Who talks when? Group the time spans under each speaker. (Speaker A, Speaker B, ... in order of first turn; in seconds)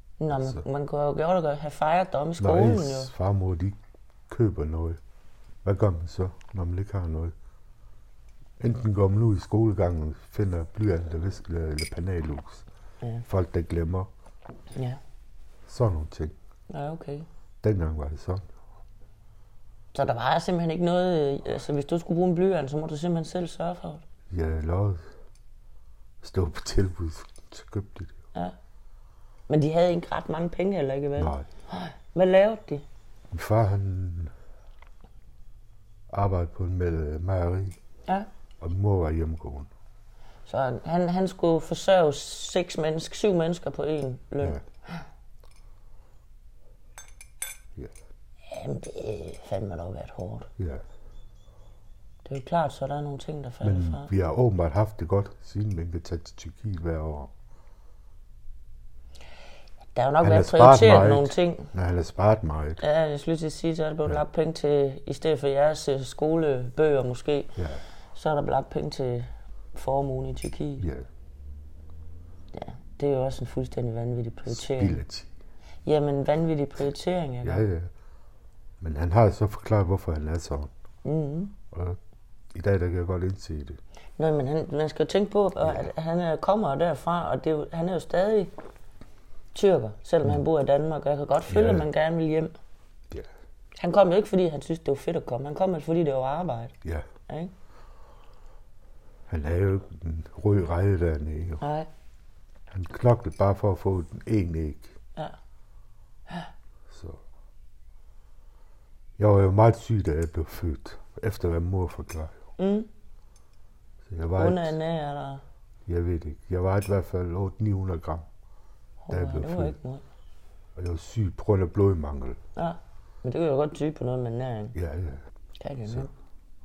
Speaker A: 0.2-3.1, 14.8-15.0, 16.7-17.3, 19.9-24.0, 29.5-32.9, 40.5-45.0, 48.5-50.5, 52.2-54.1, 60.0-61.7, 62.8-67.5, 68.1-70.9, 72.5-75.0, 75.8-77.7, 81.0-81.5, 84.2-88.5, 89.5-92.5, 93.8-96.8, 101.6-101.9, 112.6-112.9, 114.4-115.4, 119.0-120.0, 122.6-124.8, 125.6-126.1
Speaker B: 0.3-0.6, 2.4-5.0, 5.6-7.3, 8.6-12.7, 13.3-14.1, 15.7-16.4, 17.6-18.4, 24.3-25.0, 26.2-28.1, 31.2-31.5, 33.3-34.3, 36.1-37.8, 38.6-39.7, 50.6-50.9, 53.6-57.3, 60.2-62.8, 67.6-67.8, 70.8-71.1, 74.5-75.3, 77.4-77.9, 78.8-80.7, 81.7-82.0, 82.5-83.8, 85.6-85.9, 91.5-91.9, 99.3-101.6, 102.7-105.0, 106.9-107.2, 109.2-112.4, 114.1-114.8, 115.9-118.3, 119.1-119.8, 120.8-122.4, 124.8-125.2, 125.8-126.1